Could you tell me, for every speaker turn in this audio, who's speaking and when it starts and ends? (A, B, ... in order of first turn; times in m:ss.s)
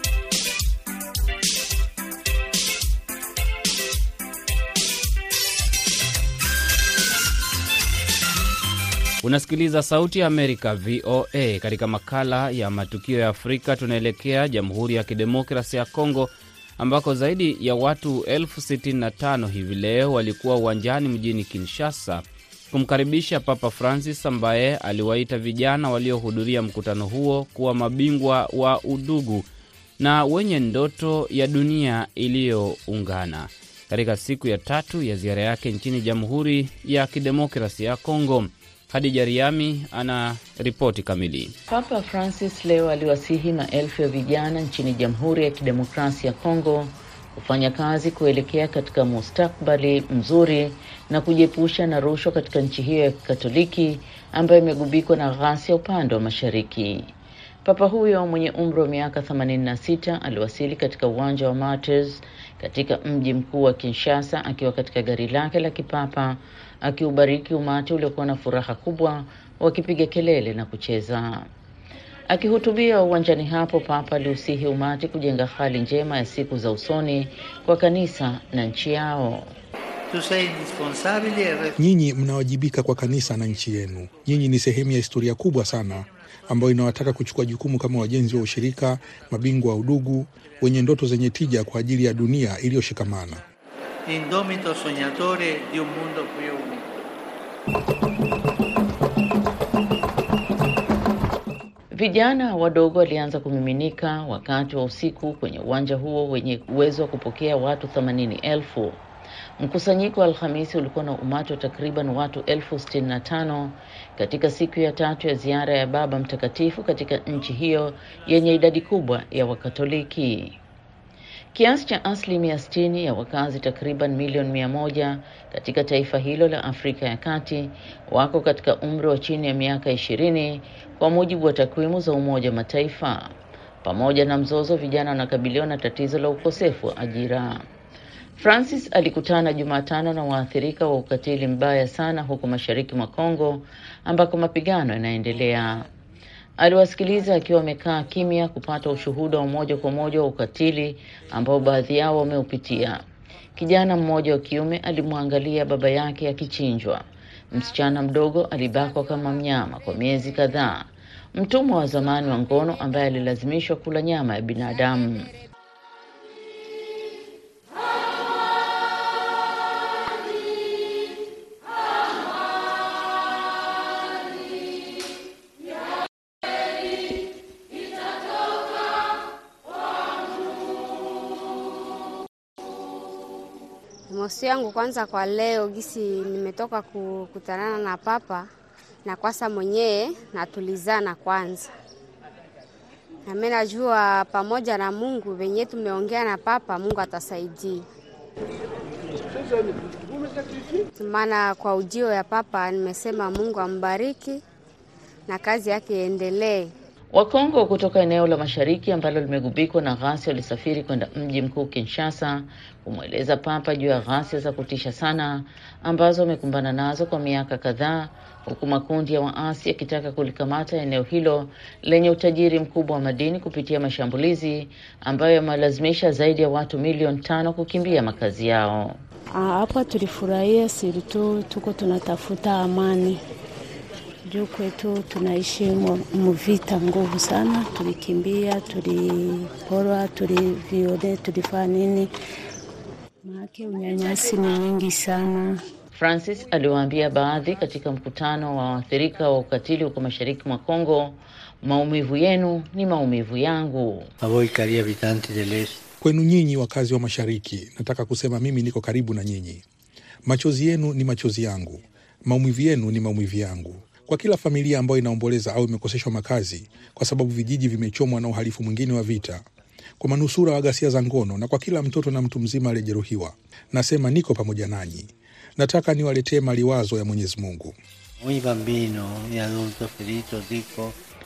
0:09.2-0:29.5 A
0:30.0-0:41.5 A
0:41.7-0:57.1 B
0:57.6-1:11.5 B
1:12.3-1:19.5 B
1:20.1-1:21.8 C
1:21.8-1:33.4 D
1:34.1-1:36.8 C
1:41.9-1:49.0 B
1:49.6-2:00.6 B
2:01.5-2:17.6 B
2:18.4-2:25.9 B
2:26.6-2:33.0 B
2:33.6-2:45.3 B
3:04.1-3:08.5 E
3:09.1-3:11.7 E
3:13.3-3:17.8 E
3:21.0-3:24.4 E
3:25.3-3:26.7 E
3:27.1-3:49.0 B
3:49.4-3:53.2 F
3:54.3-4:02.1 F
4:03.2-4:05.6 F
4:05.9-4:14.1 B
4:14.2-4:15.8 C
4:16.0-4:19.6 D
4:20.2-4:29.4 D
4:30.0-4:37.8 D
4:38.2-4:41.0 C